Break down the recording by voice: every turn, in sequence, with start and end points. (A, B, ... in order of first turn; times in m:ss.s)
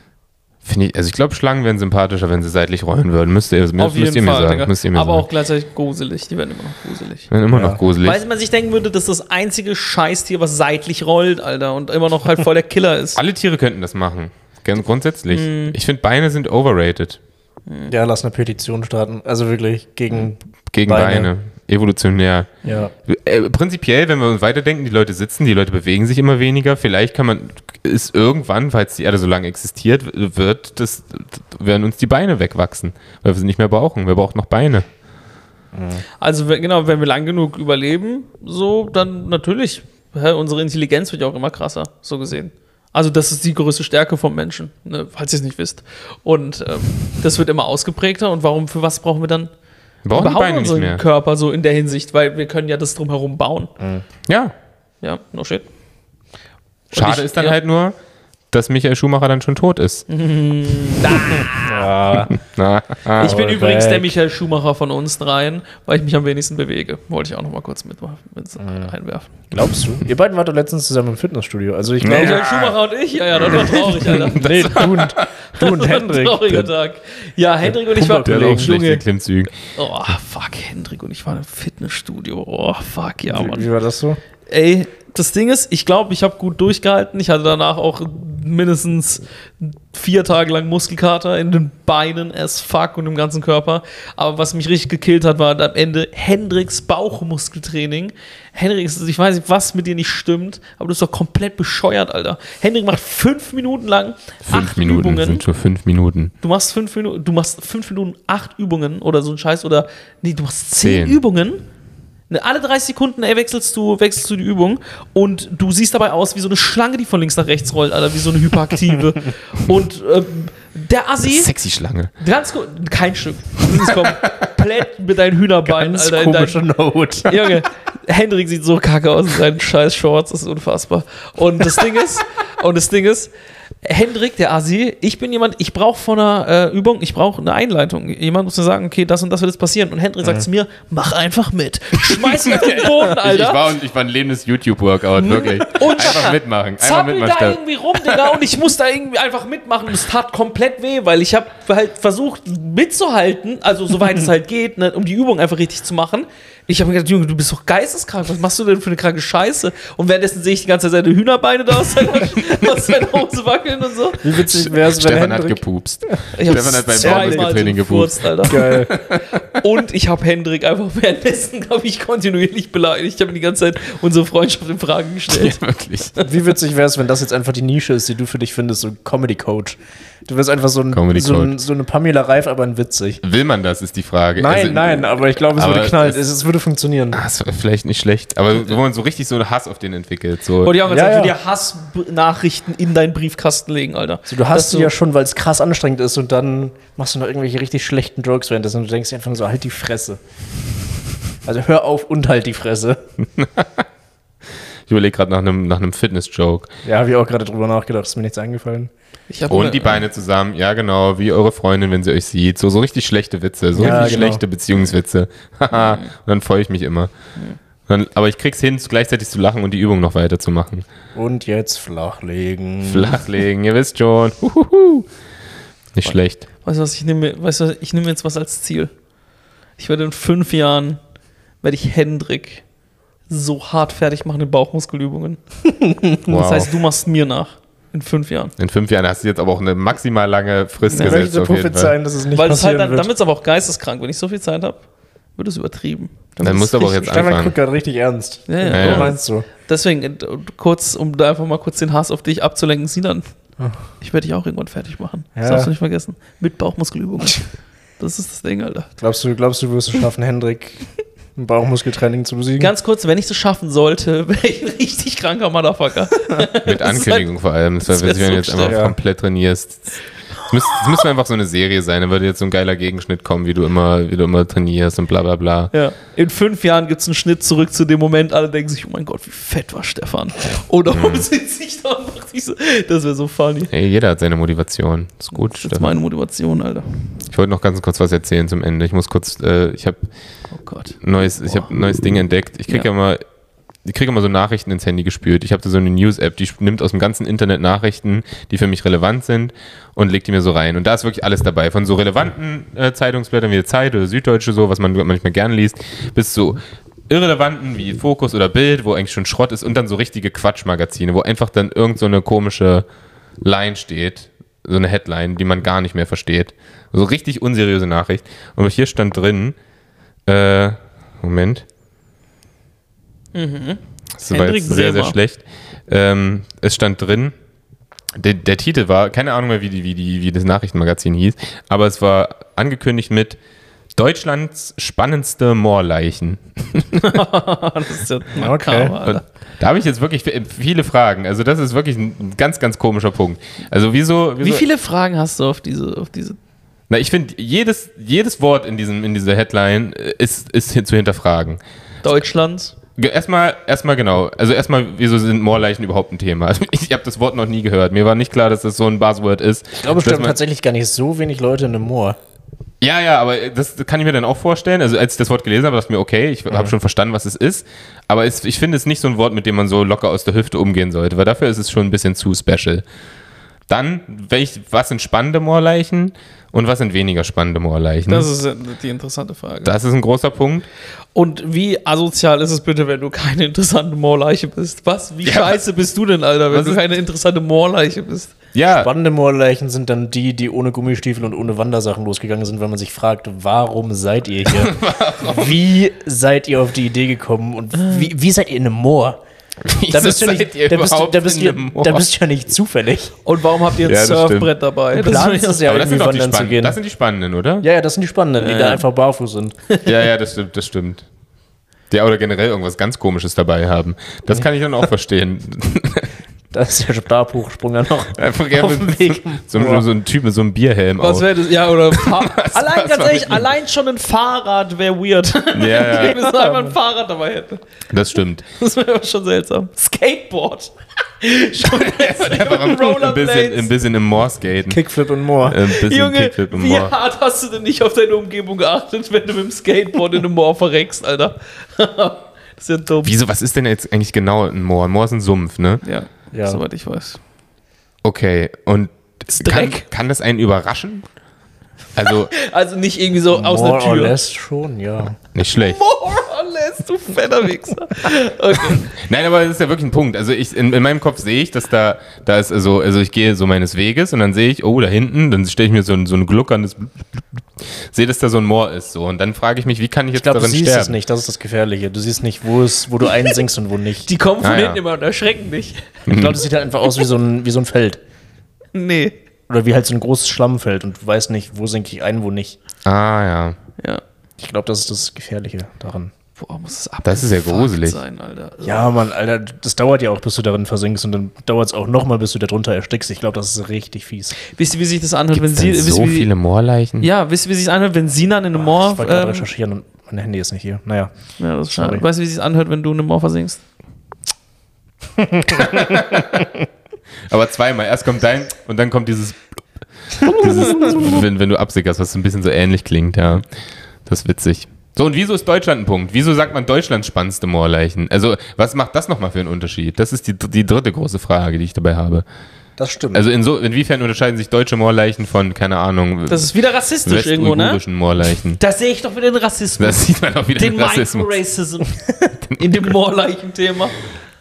0:00.6-0:05.2 A
0:03.8-0:07.3 B
0:07.3-0:08.2 A
0:07.5-0:07.8 C
0:08.0-0:13.2 B
0:13.1-0:17.2 A
0:15.3-0:15.8 B
0:17.7-0:17.9 B
0:17.9-0:21.3 C
0:20.7-0:22.5 A
0:22.6-0:22.9 C
0:23.1-0:34.8 A
0:35.7-0:36.0 C
0:36.2-0:49.5 B
0:50.0-0:51.0 A
0:50.1-0:53.7 B
0:53.8-0:54.0 C
0:54.3-0:54.5 A
0:55.0-0:55.6 B
0:56.9-0:57.6 B
0:56.9-0:57.9 A
0:58.5-1:00.0 A
1:00.1-1:01.9 B
1:01.3-1:02.3 C
1:02.3-1:03.3 A
1:03.2-1:09.3 B
1:03.2-1:04.1 C
1:08.6-1:08.9 C
1:09.5-1:12.4 C
1:12.0-1:12.8 A
1:12.0-1:14.9 B
1:13.3-1:15.2 A
1:14.1-1:16.7 C
1:15.6-1:19.0 B
1:17.6-1:18.7 C
1:18.1-1:19.5 A
1:19.7-1:23.7 B
1:23.3-1:24.2 C
1:24.5-1:45.4 B
1:44.4-1:46.3 A
1:46.4-1:51.6 B
1:50.8-1:51.2 A
1:52.3-2:01.5 B
2:01.2-2:02.1 A
2:02.2-2:06.6 B
2:03.8-2:04.1 A
2:05.6-2:07.4 C
2:07.2-2:13.3 B
2:13.8-2:23.7 B
2:22.2-2:28.4 A
2:25.2-2:44.4 B
2:44.2-2:45.6 C
2:44.5-2:49.4 A
2:46.4-2:55.6 B
2:47.0-2:47.6 C
2:48.4-2:48.9 C
2:55.3-2:56.1 A
2:56.2-3:03.2 C
3:00.9-3:01.5 A
3:03.2-3:06.2 A
3:04.4-3:07.2 C
3:07.1-3:10.8 A
3:10.6-3:14.9 B
3:10.8-3:11.4 C
3:14.3-3:20.2 C
3:21.4-3:23.0 C
3:23.4-3:23.8 A
3:24.9-3:26.7 A
3:26.8-3:28.9 C
3:29.3-3:30.0 B
3:29.5-3:37.1 A
3:33.7-3:34.4 C
3:33.8-3:34.3 B
3:35.7-3:36.1 B
3:37.9-3:40.8 A
3:41.1-3:43.2 C
3:42.8-3:45.1 A
3:45.9-3:46.4 A
3:46.6-3:48.9 B
3:49.8-3:51.0 B
3:51.6-3:52.6 B
3:53.3-3:55.4 B
3:55.8-3:56.1 C
3:56.3-3:56.7 A
3:56.3-3:58.5 B
3:58.6-4:01.9 A
4:00.9-4:01.2 B
4:01.0-4:03.1 C
4:02.3-4:04.8 B
4:05.4-4:07.2 B
4:06.4-4:07.5 A
4:07.0-4:09.5 C
4:08.5-4:13.2 B
4:08.7-4:09.1 A
4:14.0-4:17.4 B
4:15.4-4:15.7 C
4:18.0-4:18.9 B
4:19.0-4:22.7 C
4:22.6-4:27.3 B
4:26.6-4:29.9 A
4:27.8-4:28.8 B
4:28.6-4:28.9 C
4:30.5-4:35.7 A
4:35.7-4:43.7 B
4:40.9-4:41.3 A
4:43.7-4:45.9 A
4:45.3-4:46.8 B
4:47.3-4:50.0 A
4:50.5-4:51.7 B
4:51.0-4:53.2 A
4:53.8-5:12.8 A
5:13.4-5:19.6 A
5:20.3-5:21.6 A
5:23.3-5:25.1 B
5:24.2-5:27.3 A
5:28.1-5:33.4 A
5:34.0-5:37.2 A
5:37.1-5:39.2 B
5:38.3-5:38.9 C
5:39.0-5:44.7 A
5:44.4-5:46.4 B
5:46.9-5:51.6 A
5:52.0-5:52.7 B
5:53.0-6:00.4 A
5:59.7-6:02.2 C
6:02.8-6:12.8 A
6:13.7-6:18.3 A
6:18.0-6:19.7 B
6:19.6-6:20.7 A
6:21.1-6:28.3 B
6:25.2-6:25.6 A
6:26.5-6:26.8 A
6:28.5-6:28.9 A
6:28.7-6:39.2 C
6:34.4-6:35.6 A
6:37.8-6:38.1 B
6:39.6-6:42.0 A
6:39.9-6:43.2 C
6:43.2-6:45.6 B
6:43.8-6:44.5 A
6:44.9-6:46.8 C
6:45.6-6:47.6 A
6:47.6-6:49.5 C
6:48.5-6:48.8 B
6:49.8-6:51.0 A
6:51.9-6:56.1 A
6:56.5-6:59.9 C
6:58.1-7:01.3 A
7:01.0-7:07.6 B
7:01.9-7:03.5 A
7:05.5-7:06.2 A
7:05.9-7:06.8 C
7:07.9-7:08.4 A
7:08.6-7:13.7 B
7:11.6-7:14.8 A
7:14.7-7:15.6 C
7:15.4-7:16.9 A
7:15.5-7:23.1 B
7:23.0-7:25.8 A
7:25.8-7:27.2 B
7:26.3-7:26.6 C
7:28.0-7:31.1 A
7:29.3-7:29.8 B
7:31.9-7:32.3 A
7:32.0-7:34.2 B
7:33.3-7:35.2 C
7:35.3-7:35.8 A
7:35.6-7:38.9 B
7:38.9-7:51.0 A
7:50.1-7:54.1 C
7:54.0-7:56.0 B
7:54.4-7:54.8 A
7:56.1-7:56.4 A
7:56.1-7:58.0 C
7:58.7-7:59.2 B
7:59.5-8:02.6 C
8:02.8-8:03.6 A
8:04.4-8:06.1 C
8:06.4-8:09.1 B
8:07.0-8:08.0 A
8:08.6-8:14.3 C
8:14.5-8:16.3 B
8:15.3-8:17.1 A
8:17.0-8:19.5 B
8:18.6-8:21.1 C
8:21.4-8:23.6 B
8:21.7-8:22.0 C
8:25.2-8:26.5 C
8:25.5-8:26.5 A
8:27.3-8:29.6 A
8:30.2-8:33.4 A
8:30.3-8:31.0 C
8:34.0-8:42.2 A
8:42.8-8:43.2 C
8:43.1-8:46.5 A
8:46.3-8:47.8 B
8:47.0-8:48.6 A
8:48.6-8:54.0 B
8:49.8-8:51.3 A
8:52.4-8:52.9 A